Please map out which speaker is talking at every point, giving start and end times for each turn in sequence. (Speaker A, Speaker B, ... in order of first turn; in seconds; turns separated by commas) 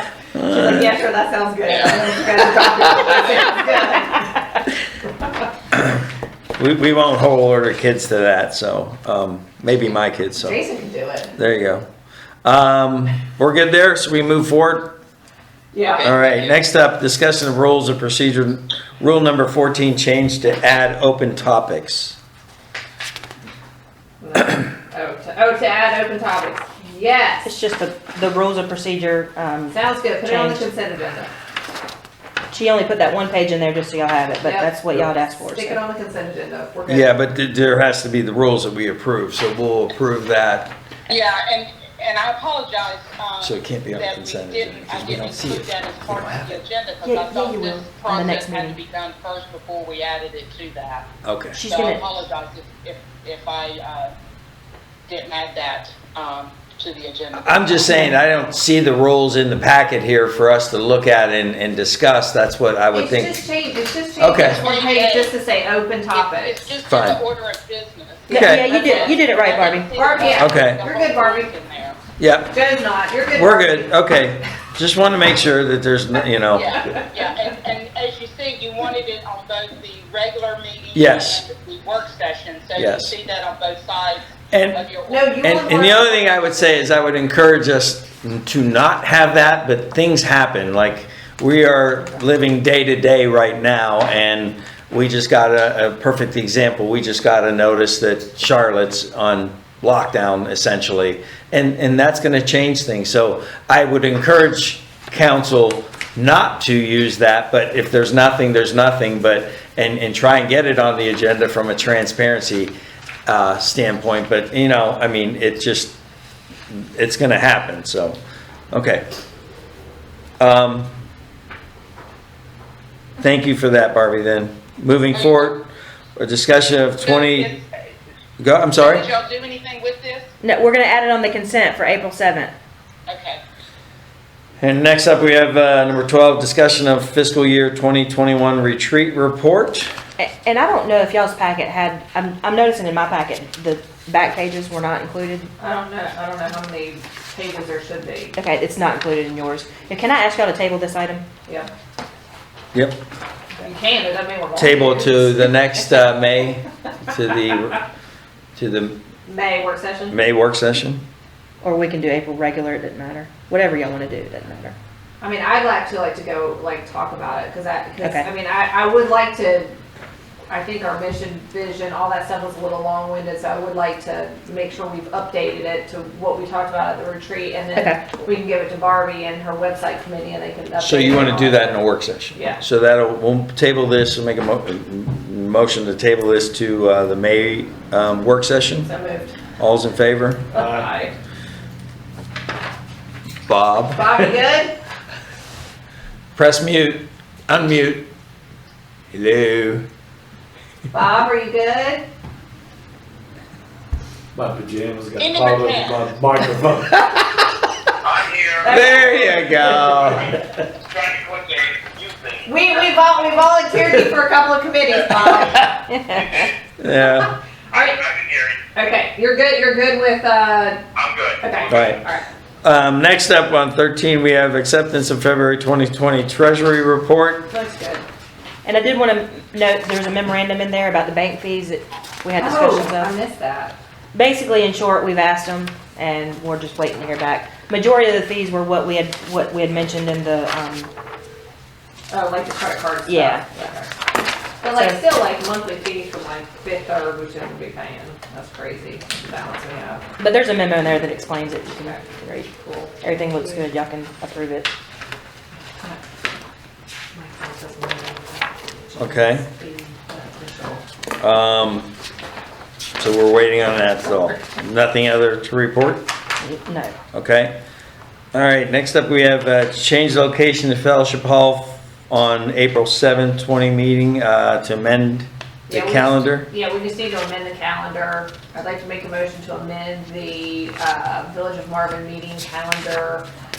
Speaker A: 0.3-0.9, Speaker B: 0.5-4.3, Speaker C: 1.7-2.1, Speaker A: 5.7-6.0, Speaker A: 6.6-10.6, Speaker B: 10.4-11.3, Speaker A: 11.3-11.9, Speaker A: 12.4-15.0, Speaker B: 15.7-16.1, Speaker C: 15.8-16.6, Speaker A: 16.0-22.2, Speaker B: 24.2-27.5, Speaker D: 27.4-30.7, Speaker B: 29.7-31.3, Speaker D: 32.5-35.8, Speaker B: 34.4-37.2, Speaker A: 36.9-40.7, Speaker C: 41.1-51.0, Speaker A: 43.4-46.6, Speaker D: 47.0-48.8, Speaker A: 51.2-51.6, Speaker D: 51.5-52.0, Speaker C: 51.6-54.1, Speaker C: 55.1-57.9, Speaker A: 57.3-63.5, Speaker D: 57.9-58.2, Speaker B: 62.9-66.7, Speaker A: 64.2-64.7, Speaker C: 64.4-65.3, Speaker C: 66.1-72.0, Speaker A: 66.9-67.2, Speaker D: 68.3-70.0, Speaker A: 68.3-68.7, Speaker B: 68.5-69.2, Speaker B: 70.0-71.5, Speaker A: 70.3-70.8, Speaker A: 72.2-72.6, Speaker B: 72.5-74.0, Speaker A: 73.3-76.8, Speaker C: 76.5-85.4, Speaker A: 81.0-81.4, Speaker A: 82.8-83.1, Speaker A: 84.5-84.8, Speaker B: 85.1-86.3, Speaker A: 85.4-112.7, Speaker A: 113.3-116.0, Speaker A: 116.7-118.2, Speaker A: 118.7-119.1, Speaker A: 120.4-120.9, Speaker A: 123.2-127.5, Speaker C: 125.1-125.6, Speaker C: 127.0-127.7, Speaker A: 128.4-129.1, Speaker C: 128.8-130.3, Speaker D: 130.4-132.5, Speaker C: 133.1-133.4, Speaker A: 134.6-139.9, Speaker D: 140.2-145.5, Speaker B: 145.6-148.4, Speaker D: 148.4-151.3, Speaker A: 152.7-153.0, Speaker B: 153.6-155.5, Speaker A: 154.6-157.8, Speaker A: 158.6-159.0, Speaker B: 159.3-160.2, Speaker A: 160.1-161.0, Speaker D: 161.6-164.8, Speaker B: 165.2-169.8, Speaker D: 168.0-168.3, Speaker B: 170.5-182.6, Speaker D: 177.7-178.1, Speaker A: 180.8-188.9, Speaker B: 188.8-189.4, Speaker A: 189.6-190.5, Speaker B: 190.5-191.1, Speaker E: 190.6-190.9, Speaker A: 193.5-194.1, Speaker B: 193.9-194.8, Speaker A: 196.4-198.1, Speaker A: 199.1-199.9, Speaker B: 200.9-202.1, Speaker E: 204.3-207.0, Speaker C: 205.2-206.1, Speaker F: 208.1-208.6, Speaker B: 208.6-209.7, Speaker A: 208.7-210.4, Speaker F: 210.8-212.4, Speaker B: 212.4-215.7, Speaker D: 215.9-216.4, Speaker A: 216.8-217.3, Speaker B: 217.2-218.1, Speaker F: 217.9-218.5, Speaker B: 218.8-220.8, Speaker F: 221.0-221.4, Speaker B: 221.4-222.2, Speaker A: 221.7-222.0, Speaker A: 222.6-227.5, Speaker B: 227.5-228.1, Speaker D: 228.7-233.1, Speaker B: 232.4-233.8, Speaker D: 234.1-240.9, Speaker B: 242.1-243.9, Speaker D: 243.1-243.6, Speaker B: 244.6-250.1, Speaker D: 250.2-252.4, Speaker B: 251.8-253.7, Speaker D: 253.0-254.7, Speaker B: 257.1-260.8, Speaker A: 259.0-259.5, Speaker A: 261.2-261.9, Speaker A: 263.0-266.1, Speaker D: 266.4-266.9, Speaker A: 267.1-267.6, Speaker A: 268.3-276.5, Speaker B: 275.7-283.3